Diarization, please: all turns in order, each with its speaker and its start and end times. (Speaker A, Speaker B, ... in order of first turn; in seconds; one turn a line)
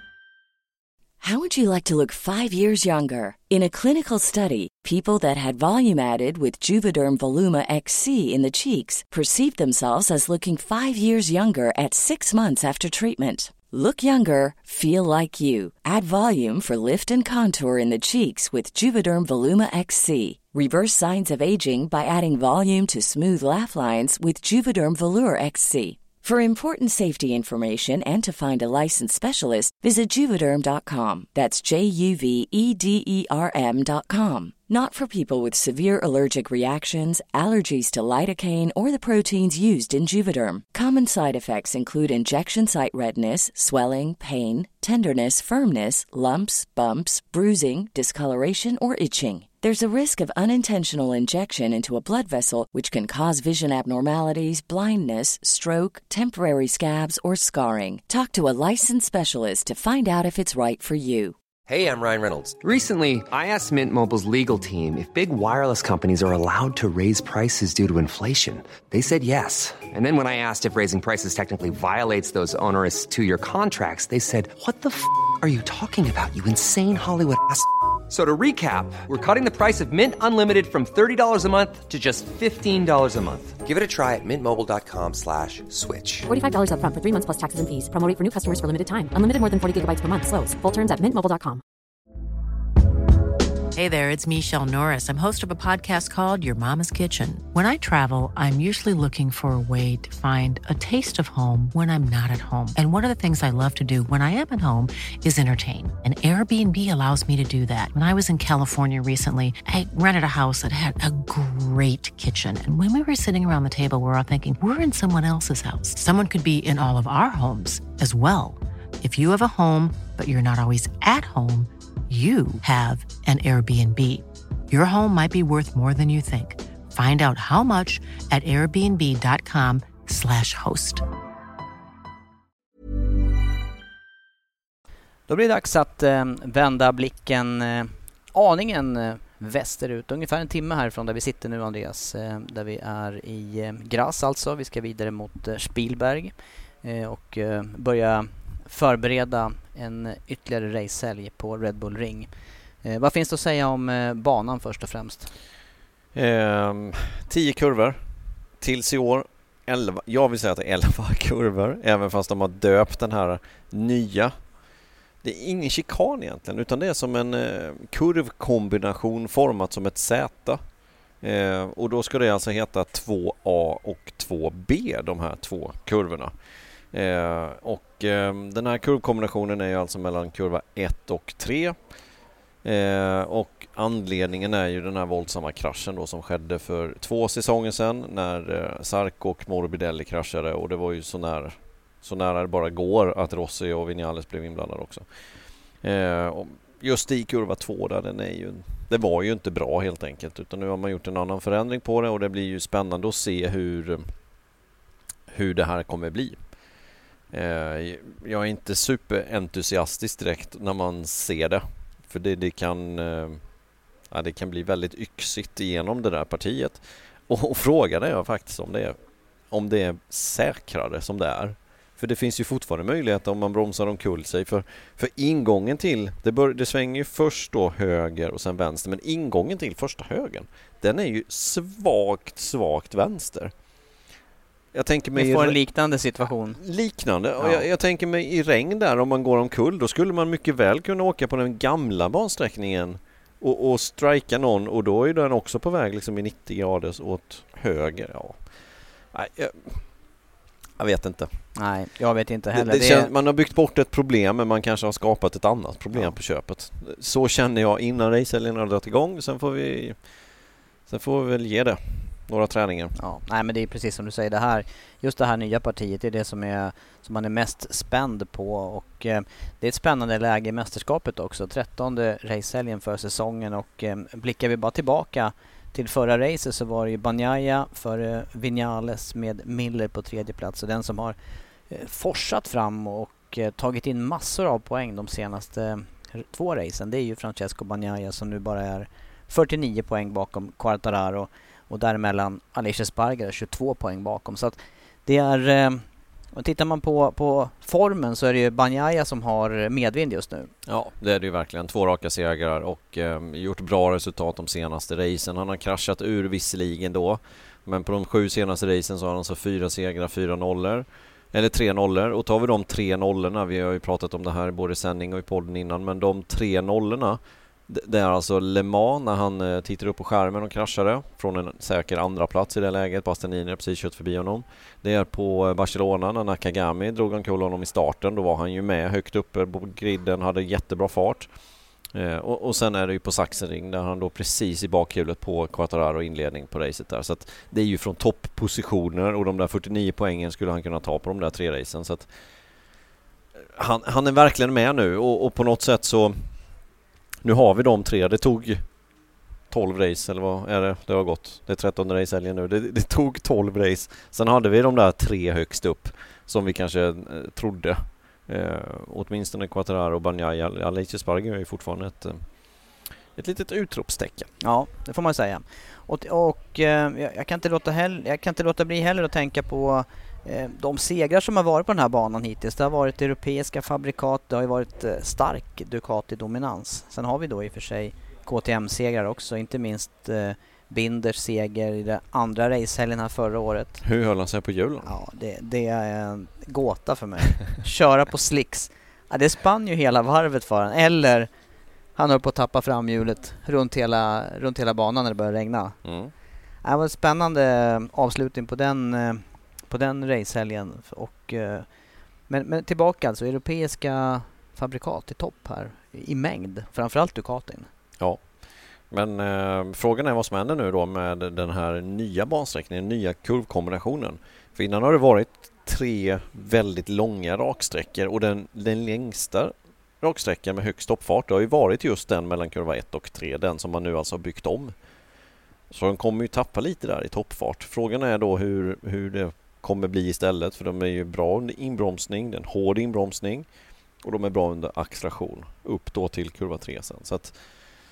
Speaker A: 1.2-61.3
Speaker B: 61.7-86.3
Speaker C: 86.3-91.6
Speaker D: 93.7-131.0
Speaker E: 135.3-152.3
Speaker E: 152.8-155.3
Speaker F: 156.1-158.0
Speaker F: 158.6-164.3
Speaker F: 165.2-170.6
Speaker F: 171.2-176.3
Speaker F: 176.9-181.8
Speaker F: 182.6-204.1
Speaker F: 205.3-206.4
Speaker F: 207.3-213.4
Speaker F: 214.1-219.0
Speaker F: 219.5-233.5
Speaker F: 234.7-235.6
Speaker E: 235.1-236.6
Speaker F: 236.6-249.9
Speaker E: 237.4-237.6
Speaker F: 250.8-251.4
Speaker E: 251.6-253.1
Speaker F: 252.5-260.2
Speaker F: 260.9-262.9
Speaker E: 263.0-281.2
Speaker E: 281.7-300.5
Speaker F: 300.6-331.3
Speaker F: 331.9-342.1
Speaker F: 343.6-346.4
Speaker F: 347.2-348.7
Speaker F: 349.5-364.3
Speaker E: 364.4-383.8
Speaker F: 383.8-384.9
Speaker E: 384.8-391.3
Speaker E: 391.9-395.8
Speaker F: 395.8-396.1
Speaker E: 396.6-401.7
Speaker E: 402.3-407.7
Speaker F: 408.0-424.7
Speaker F: 425.7-433.5
Speaker F: 434.0-437.4